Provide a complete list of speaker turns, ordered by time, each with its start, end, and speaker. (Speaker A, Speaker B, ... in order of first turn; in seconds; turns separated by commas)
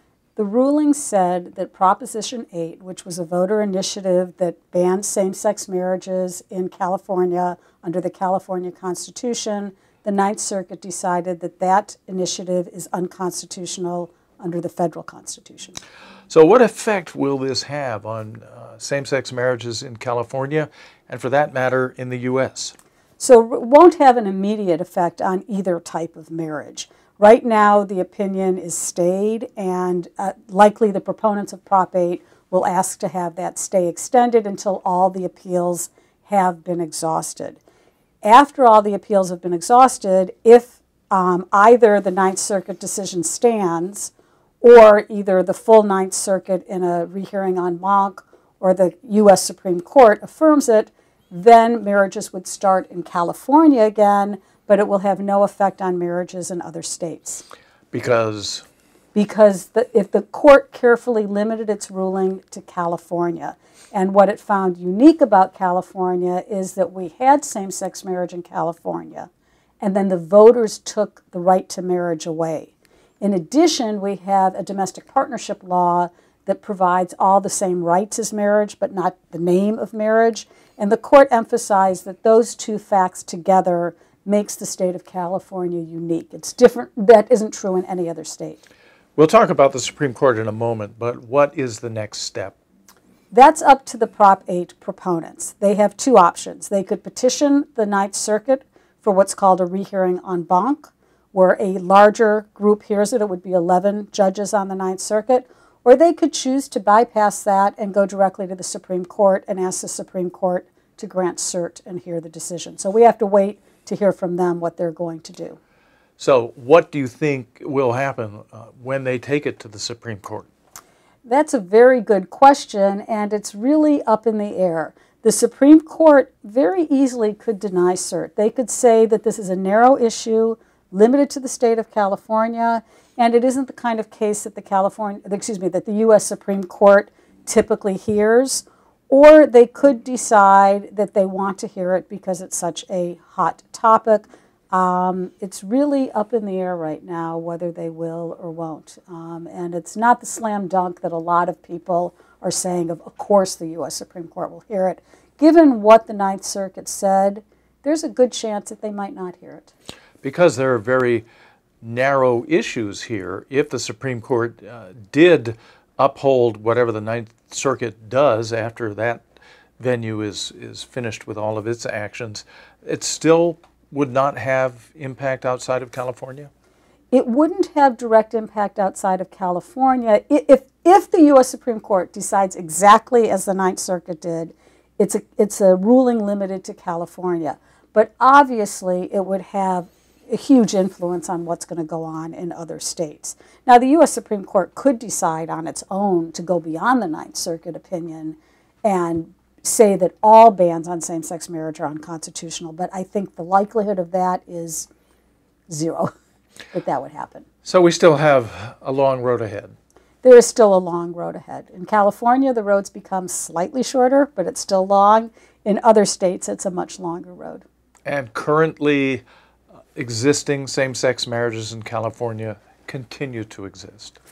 Speaker A: 0.3-15.8, Speaker B: 16.3-22.7, Speaker A: 23.2-37.6, Speaker A: 38.2-57.4, Speaker B: 57.9-58.6, Speaker A: 59.1-69.3, Speaker A: 69.8-88.7, Speaker B: 89.2-92.5, Speaker A: 93.3-115.6, Speaker B: 116.2-120.5, Speaker A: 121.2-159.7, Speaker B: 160.2-161.2, Speaker B: 161.8-169.2, Speaker B: 169.8-176.5, Speaker A: 177.1-204.9, Speaker A: 205.7-206.1, Speaker A: 206.7-207.4, Speaker B: 207.6-209.7, Speaker A: 210.2-217.6, Speaker B: 218.0-219.2, Speaker B: 219.9-224.2